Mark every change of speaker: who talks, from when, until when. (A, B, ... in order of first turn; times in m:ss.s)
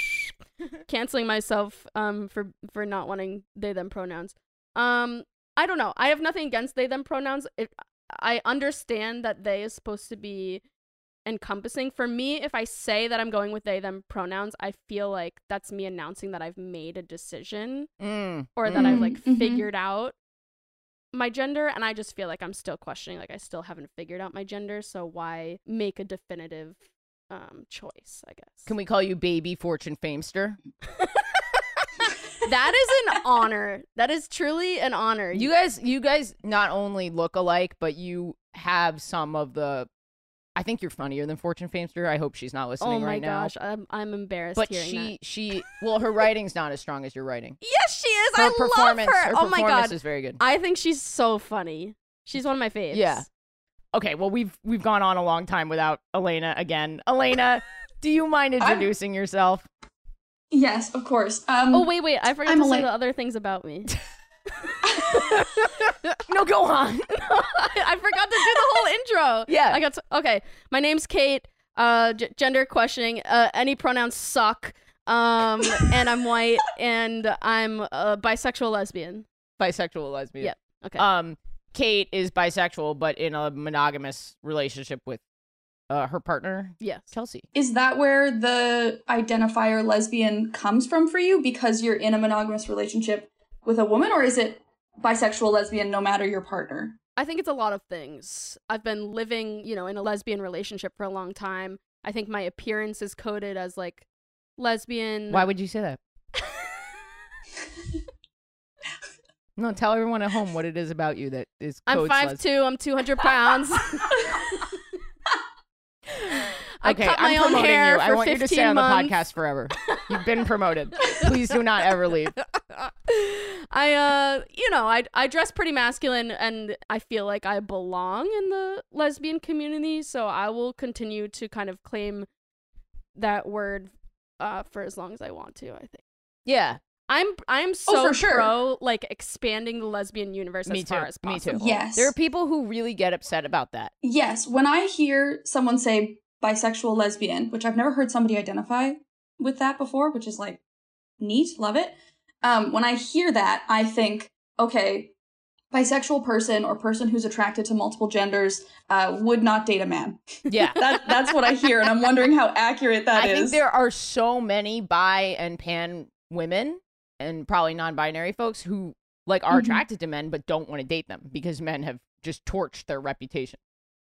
0:00.9-0:10.6 A
0:11.3-0:17.9 A
0:18.0-0:19.1 B
0:18.6-0:20.2 A
0:18.7-0:19.7 C
0:21.1-0:28.7 A
0:28.7-0:30.6 B
0:31.0-0:31.4 A
0:32.4-0:35.5 A
0:35.3-0:39.9 B
0:40.6-0:43.5 B
0:42.8-0:45.2 A
0:44.6-0:47.6 B
0:47.6-0:53.3 A
0:48.4-0:50.4 B
0:52.9-0:53.3 B
0:53.9-0:59.7 B
0:58.6-0:58.9 C
1:00.5-1:01.9 C
1:01.7-1:03.9 A
1:02.4-1:02.9 C
1:05.1-1:05.7 B
1:06.3-1:07.7 B
1:07.6-1:19.3 A
1:09.5-1:09.8 B
1:19.6-1:25.2 B
1:20.4-1:21.1 A
1:25.9-1:27.5 B
1:26.8-1:27.1 A
1:27.5-1:37.0 C
1:37.2-1:44.1 A
1:44.6-1:45.5 A
1:45.3-1:46.0 B
1:49.6-1:52.4 B
1:51.9-1:54.4 A
1:56.8-1:59.2 A
1:56.8-2:02.4 B
2:02.6-2:12.3 A
2:13.2-2:16.0 A
2:16.5-2:16.8 B
2:17.1-2:21.8 A
2:17.9-2:18.5 C
2:20.7-2:23.9 B
2:21.5-2:22.1 C
2:24.0-2:30.6 C
2:31.2-2:35.1 C
2:35.7-2:40.2 C
2:40.5-2:40.8 B
2:40.8-2:43.6 C
2:43.2-2:53.6 B
2:49.5-2:49.8 C